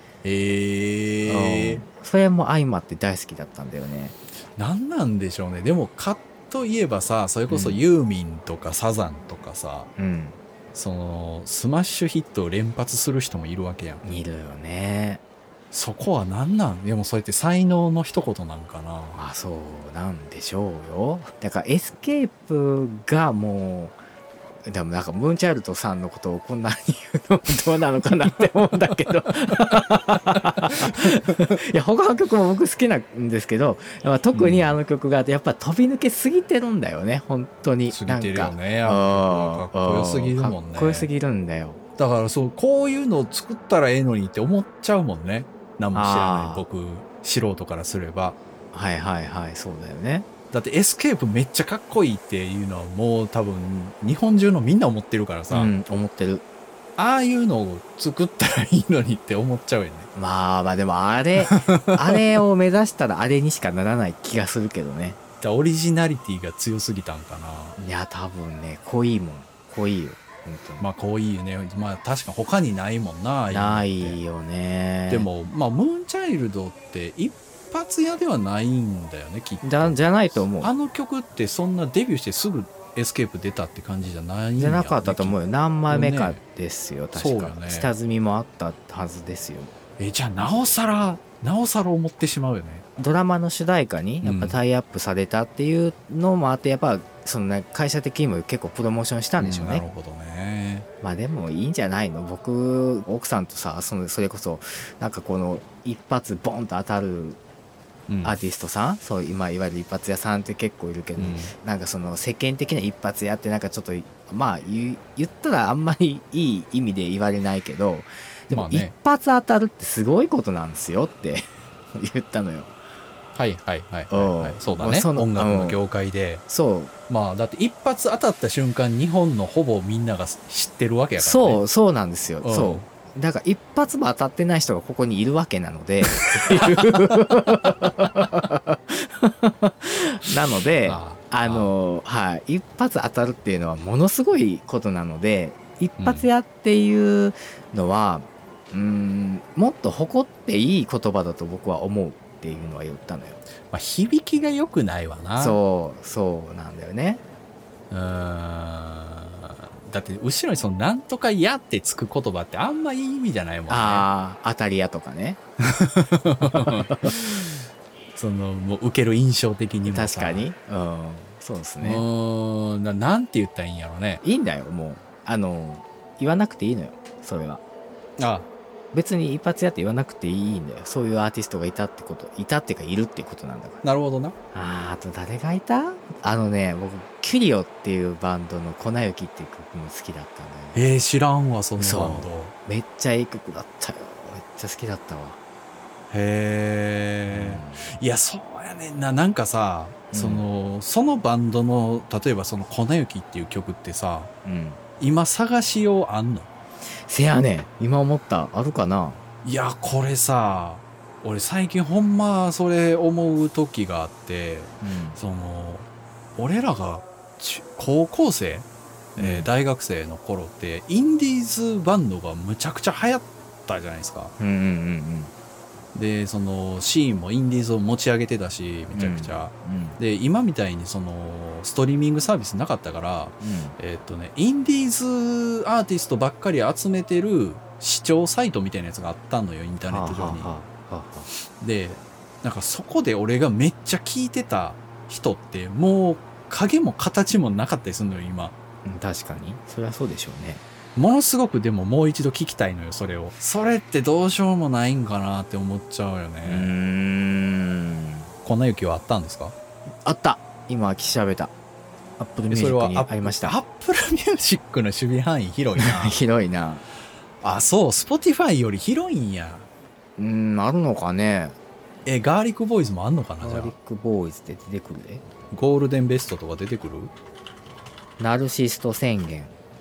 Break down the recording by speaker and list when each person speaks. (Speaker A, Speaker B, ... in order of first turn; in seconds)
Speaker A: 0.2-1.8, 4.6-9.9, 10.7-14.0, 15.7-19.2, 34.3-34.8, 37.9-41.1, 42.0-48.4, 50.5-55.7, 57.0-60.1, 61.4-62.2, 65.4-67.8, 70.8-74.2, 75.1-86.4, 87.1-87.9, 90.0-92.8, 94.2-94.6, 99.4-100.8, 108.1-108.3, 111.2-111.5, 118.5-118.9, 123.3-126.4, 127.1-131.6, 132.4-132.8, 140.8-141.7, 146.0-146.3, 153.7-155.6, 157.9-164.1, 165.6-167.5, 168.1-170.4, 171.8-174.2, 178.2-178.5, 183.8-184.3, 190.7-192.5, 196.1-204.3, 205.0-206.5, 209.4-224.3, 225.9-240.5, 241.6-248.5, 250.9-256.7, 258.4-259.5, 262.5-266.2, 267.4-269.7, 272.1-273.7, 275.5-277.1
Speaker B: 1.3-4.2, 7.5-7.8, 9.9-10.4, 14.0-15.2, 19.1-24.0, 24.6-41.8, 45.9-46.6, 48.7-50.3, 55.5-56.4, 60.1-65.2, 67.8-70.9, 73.5-75.3, 79.6-80.7, 84.6-89.7, 93.0-99.8, 101.0-107.4, 108.2-122.8, 124.1-125.8, 126.5-126.9, 131.2-153.4, 155.4-157.2, 163.7-165.4, 169.8-172.0, 174.2-177.6, 178.9-183.8, 184.5-190.8, 191.8-195.4, 197.3-197.9, 200.1-200.4, 204.4-204.8, 207.0-209.2, 214.8-215.2, 219.2-219.5, 224.4-225.3, 228.9-230.0, 233.4-233.8, 239.8-241.3, 248.8-250.6, 256.4-258.3, 260.0-261.5, 262.2-263.6, 265.8-266.8, 270.2-271.6, 273.4-275.2, 278.2-279.5